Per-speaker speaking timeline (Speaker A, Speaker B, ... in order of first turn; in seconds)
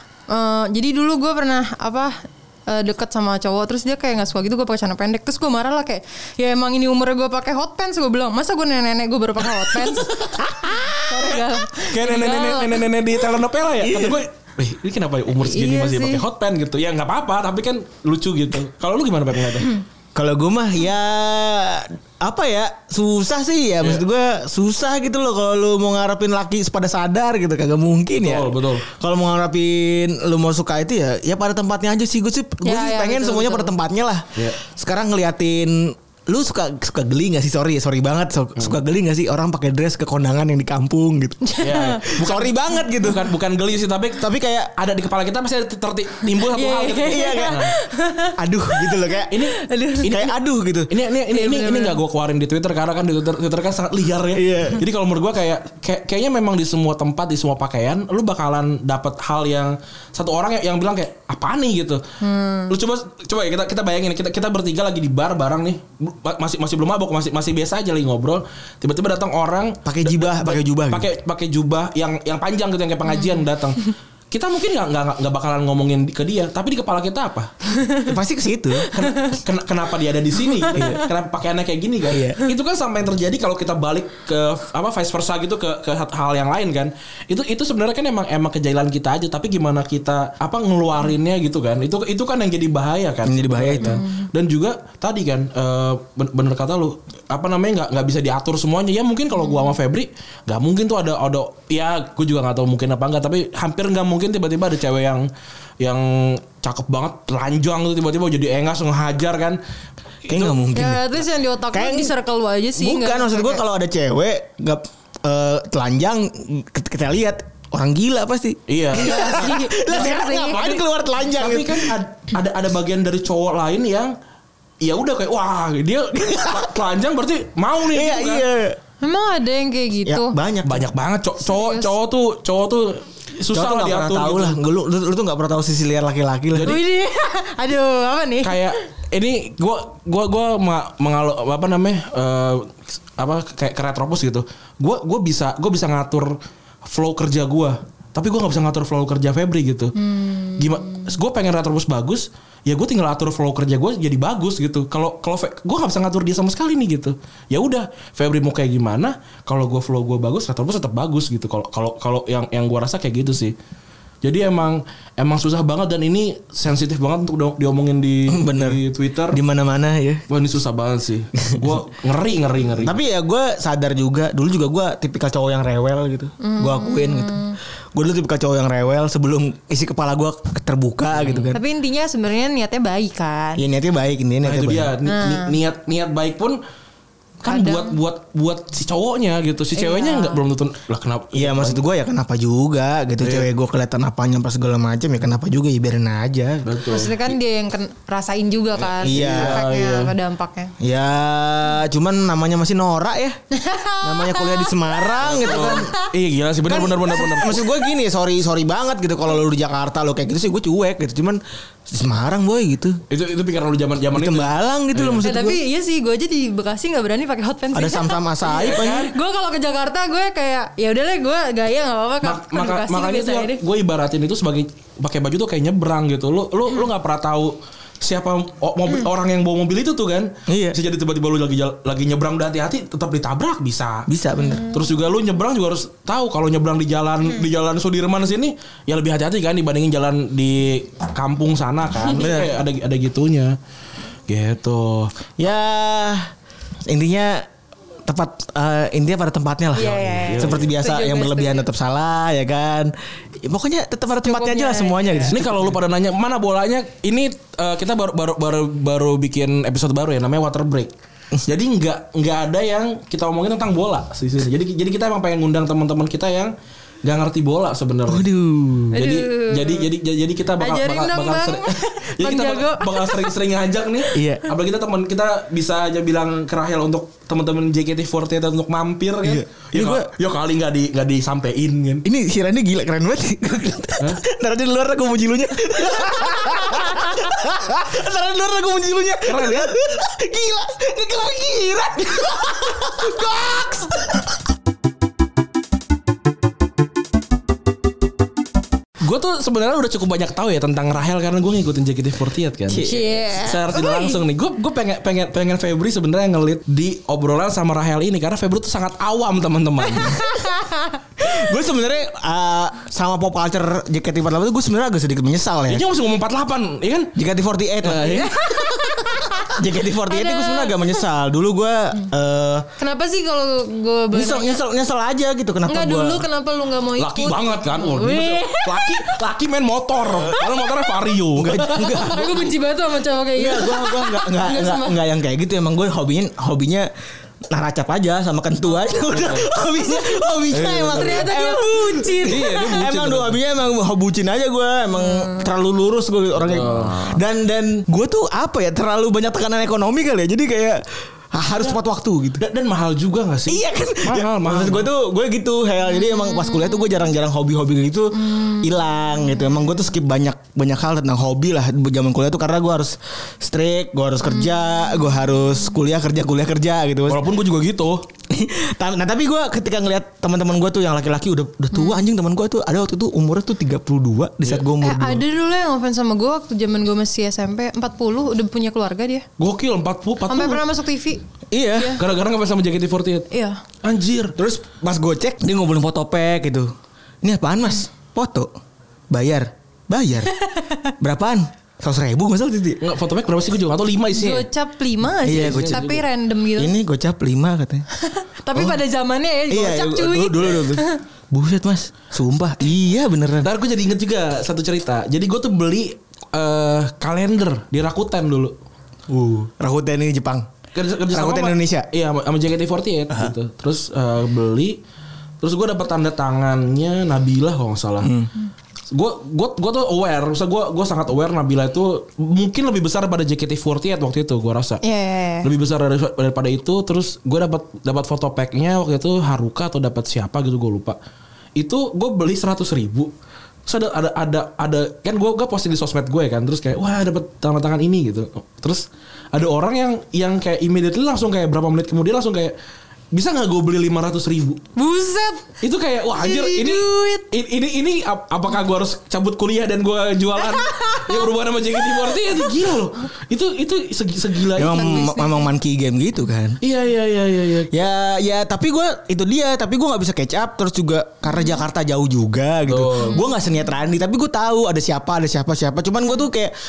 Speaker A: 0.3-12.8, 15.4-16.2, 32.6-33.7, 41.4-42.1, 46.4-50.2, 51.3-52.0, 62.2-62.7, 73.1-73.4, 77.7-78.1, 78.8-79.4, 80.7-81.0, 93.8-94.2, 99.4-99.7, 110.7-113.6, 118.9-120.8, 129.0-130.3, 131.4-131.9, 136.6-138.7, 150.0-151.1, 176.4-177.6, 181.5-183.6, 185.0-185.5, 187.4-187.9, 189.8-190.4, 196.9-200.7, 203.5-206.1, 215.2-223.6, 234.4-234.9, 249.8-251.7, 254.2-255.3, 268.9-269.9, 270.6-273.3, 302.8-304.2, 309.9-311.0, 318.0-321.0, 322.8-324.6, 325.7-329.2, 330.2-330.9, 331.9-335.0, 338.8-339.1, 340.9-342.7, 345.0-345.5, 346.8-347.1, 355.9-357.0, 358.1-359.5, 364.3-365.1, 371.7-372.0, 374.8-379.3, 380.3-381.2, 381.8-382.0, 383.3-383.6, 390.3-390.9, 394.1-396.7, 397.9-401.0, 424.8-425.5, 444.8-445.5, 446.1-447.3, 450.4-451.3, 451.8-452.4, 454.7-455.5
Speaker B: 11.7-19.7, 28.2-28.9, 41.6-47.7, 49.3-50.3, 50.9-62.0, 62.7-77.5, 78.9-105.3, 105.8-109.6, 110.2-110.6, 118.7-119.6, 121.3-124.1, 124.8-128.4, 130.6-134.6, 136.5-136.8, 138.4-149.9, 150.6-163.6, 164.2-169.4, 170.3-173.0, 181.1-181.5, 184.4-186.6, 187.4-191.8, 193.2-193.5, 196.6-197.3, 198.8-200.1, 205.2-207.6, 213.1-215.2, 218.5-219.1, 222.2-234.1, 234.7-243.6, 244.3-245.1, 249.8-250.7, 255.3-260.9, 261.4-268.2, 268.9-282.0, 289.2-289.7, 299.0-310.2, 315.7-317.1, 317.8-318.4, 326.9-332.4, 339.1-339.5, 340.5-341.3, 342.2-343.4, 346.4-347.0, 352.4-354.9, 367.1-368.0, 379.4-380.6, 381.9-383.3, 383.8-384.4, 392.8-394.4, 395.2-396.0, 403.4-408.5, 410.7-414.8, 415.4-418.1, 418.9-424.8, 425.4-431.0, 431.6-433.1, 433.7-442.5, 443.1-444.6, 445.6-455.1, 456.6-457.8, 462.7-463.2
Speaker C: 13.8-14.2, 20.1-43.3, 44.2-44.7, 47.1-47.6, 48.4-49.3, 50.0-50.9, 54.3-54.8, 69.8-71.1, 78.0-78.9, 80.7-81.0, 82.1-82.4, 93.2-94.0, 110.3-111.0, 111.7-112.1, 112.8-121.9, 127.9-128.8, 130.1-130.9, 133.5-136.7, 168.3-168.8, 169.3-170.2, 172.8-177.4, 177.9-181.6, 183.6-184.9, 191.3-196.7, 199.0-199.6, 200.8-203.4, 204.0-205.9, 206.7-213.0, 214.1-215.6, 217.7-219.1, 230.5-230.8, 234.1-234.7, 242.1-242.5, 245.4-246.3, 246.9-247.5, 248.0-255.8, 268.1-269.0, 274.1-274.5, 279.2-280.1, 282.0-294.4, 302.7-303.1, 311.2-315.9, 317.1-318.3, 319.5-322.7, 324.1-326.2, 331.3-332.3, 333.3-336.9, 337.5-352.4, 353.5-367.2, 368.3-375.2, 381.5-382.0, 384.4-388.5, 389.1-390.3, 391.0-392.8, 395.2-396.0, 396.6-397.9, 398.5-398.8, 399.5-403.5, 409.1-410.5, 411.1-411.9, 418.0-418.3, 454.5-456.6, 457.7-466.5